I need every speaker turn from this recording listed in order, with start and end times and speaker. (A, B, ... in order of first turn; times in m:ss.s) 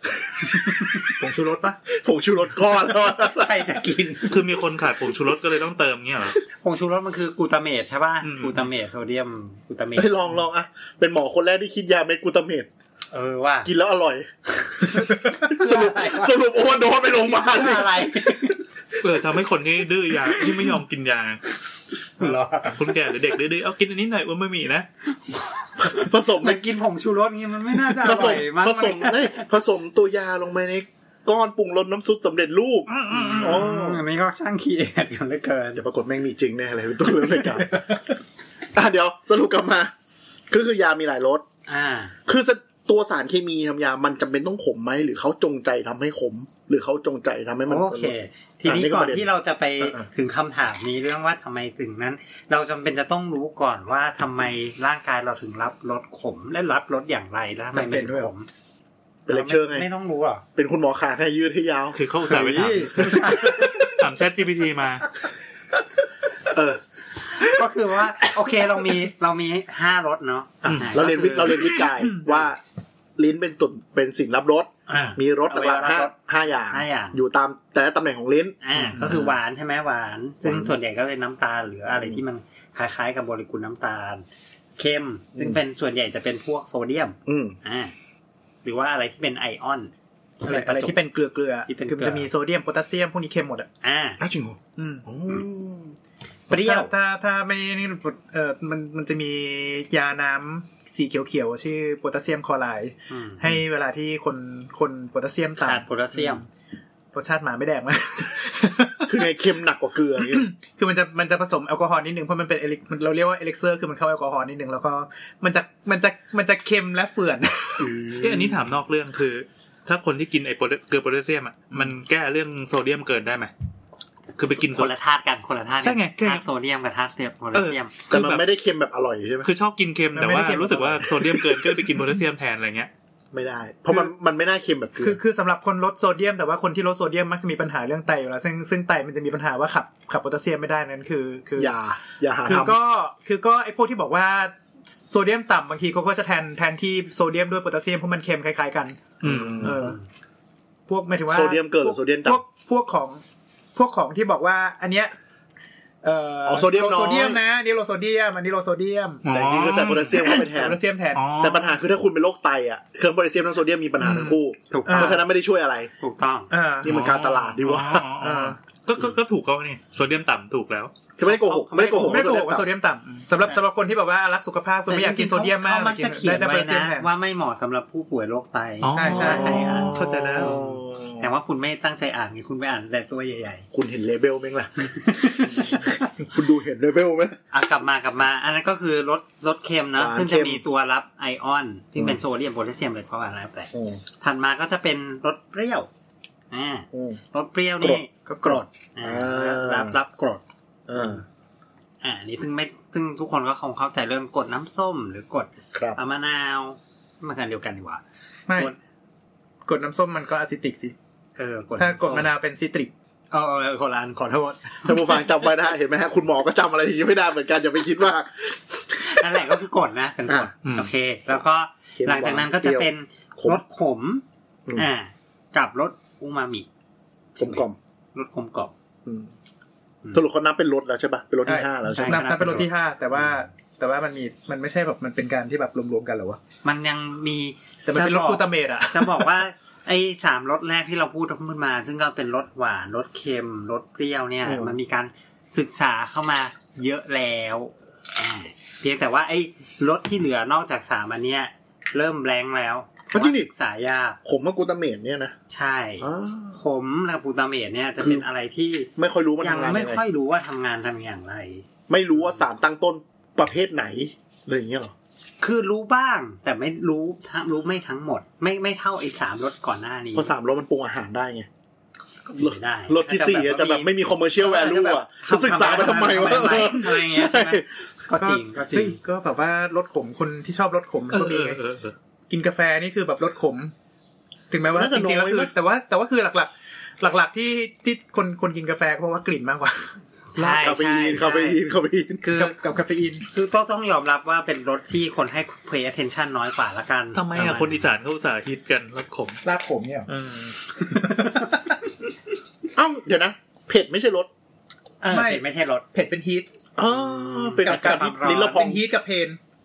0:00.3-0:00.9 A
0:00.5-0:01.1 B
0:01.2-0:01.8 C
0:01.8-0:03.9 A
0:02.8-0:04.4 B
0:04.3-0:06.4 D
0:06.5-0:10.2 B
0:08.2-0:08.6 D
0:10.0-0:12.7 A
0:13.1-0:13.7 B
0:13.6-0:18.5 A
0:15.0-0:16.4 B
0:17.1-0:18.6 B
0:19.0-0:21.4 D
0:22.2-0:22.9 B
0:22.2-0:24.9 D
0:25.3-0:29.5 B
0:25.8-0:26.6 A
0:27.8-0:34.0 A
0:32.9-0:33.7 D
0:33.1-0:35.8 B
0:35.8-0:38.0 A
0:38.7-0:39.9 A
0:40.5-0:41.4 A
0:41.7-0:42.1 B
0:42.2-0:48.1 A
0:47.7-0:58.5 B
0:48.6-0:49.2 A
0:49.8-0:50.1 A
0:57.7-0:58.3 C
0:59.3-0:59.9 A
0:59.3-1:00.4 B
1:00.5-1:03.9 A
1:01.9-1:05.1 D
1:02.3-1:03.9 B
1:06.4-1:06.8 A
1:07.3-1:11.8 B
1:10.6-1:12.6 A
1:13.2-1:19.3 A
1:14.9-1:16.1 B
1:16.7-1:17.2 B
1:18.6-1:24.2 B
1:20.4-1:20.7 A
1:21.9-1:22.2 A
1:24.8-1:27.9 B
1:27.2-1:27.6 A
1:28.6-1:31.0 B
1:30.4-1:33.7 C
1:31.7-1:32.3 B
1:33.8-1:34.2 B
1:34.2-1:36.0 A
1:34.8-1:35.0 C
1:36.5-1:36.9 B
1:36.5-1:46.4 C
1:43.1-1:43.4 B
1:45.6-1:46.4 B
1:47.1-1:49.2 C
1:49.1-1:50.5 A
1:50.2-1:57.9 C
1:57.8-1:58.6 A
1:58.2-2:03.5 D
2:04.4-2:04.9 D
2:04.6-2:07.9 B
2:05.8-2:06.4 D
2:07.5-2:08.4 D
2:08.1-2:09.5 A
2:09.4-2:12.9 D
2:10.1-2:11.4 C
2:13.3-2:15.2 A
2:15.0-2:21.7 C
2:21.6-2:22.8 A
2:22.4-2:29.0 C
2:29.2-2:29.8 D
2:29.2-2:29.8 A
2:29.6-2:30.0 C
2:30.9-2:33.2 C
2:31.3-2:32.4 A
2:33.7-2:35.1 C
2:36.0-2:39.2 C
2:36.4-2:37.4 A
2:39.2-2:40.4 D
2:39.3-2:40.8 A
2:40.2-2:41.3 C
2:41.1-2:41.8 D
2:41.4-2:45.9 A
2:44.0-2:45.2 C
2:44.7-2:45.2 B
2:46.0-2:46.5 B
2:46.5-2:46.9 C
2:46.8-2:48.1 A
2:46.8-2:50.9 D
2:48.2-2:48.6 C
2:51.2-2:52.7 A
2:51.2-2:52.3 B
2:51.9-2:57.1 C
2:54.9-3:03.7 B
2:58.8-3:00.6 D
2:58.9-2:59.9 C
2:59.1-3:01.3 A
3:03.7-3:04.7 A
3:04.9-3:06.1 B
3:05.2-3:07.4 A
3:07.5-3:15.9 B
3:10.0-3:10.6 A
3:13.7-3:14.0 A
3:16.5-3:20.4 B
3:16.9-3:17.2 A
3:17.8-3:20.0 A
3:18.3-3:18.6 C
3:20.9-3:21.2 A
3:21.0-3:21.2 B
3:22.0-3:28.0 B
3:25.7-3:26.0 A
3:28.5-3:28.7 C
3:29.6-3:30.9 C
3:31.4-3:32.3 B
3:31.8-3:32.9 C
3:33.3-3:35.2 B
3:34.8-3:39.4 A
3:39.0-3:46.7 B
3:40.6-3:40.9 D
3:42.0-3:43.6 A
3:47.3-3:48.7 B
3:47.4-3:47.8 A
3:49.0-3:49.3 A
3:50.1-3:52.7 A
3:51.4-3:56.4 C
3:51.8-3:53.4 B
3:56.6-4:14.2 B
3:57.8-3:59.4 C
4:04.4-4:04.7 A
4:13.1-4:13.5 A
4:14.2-4:15.3 A
4:15.5-4:22.4 B
4:16.0-4:16.6 A
4:18.0-4:18.2 A
4:19.0-4:20.0 A
4:21.9-4:24.9 A
4:25.4-4:30.3 B
4:30.1-4:31.5 A
4:32.2-4:39.0 B
4:32.3-4:37.7 A
4:38.2-4:41.6 C
4:41.1-4:41.9 D
4:42.3-4:43.7 C
4:44.5-4:49.9 C
4:44.7-4:45.5 A
4:50.3-4:51.6 B
4:50.4-4:52.2 A
4:52.2-4:52.6 B
4:52.3-4:53.2 C
4:53.3-4:57.8 B
4:57.1-4:59.4 D
4:59.4-5:00.1 C
5:00.1-5:00.5 D
5:00.8-5:01.8 C
5:02.7-5:04.3 A
5:05.0-5:05.8 B
5:05.1-5:06.5 C
5:06.8-5:08.8 A
5:06.9-5:08.7 B
5:07.6-5:09.4 C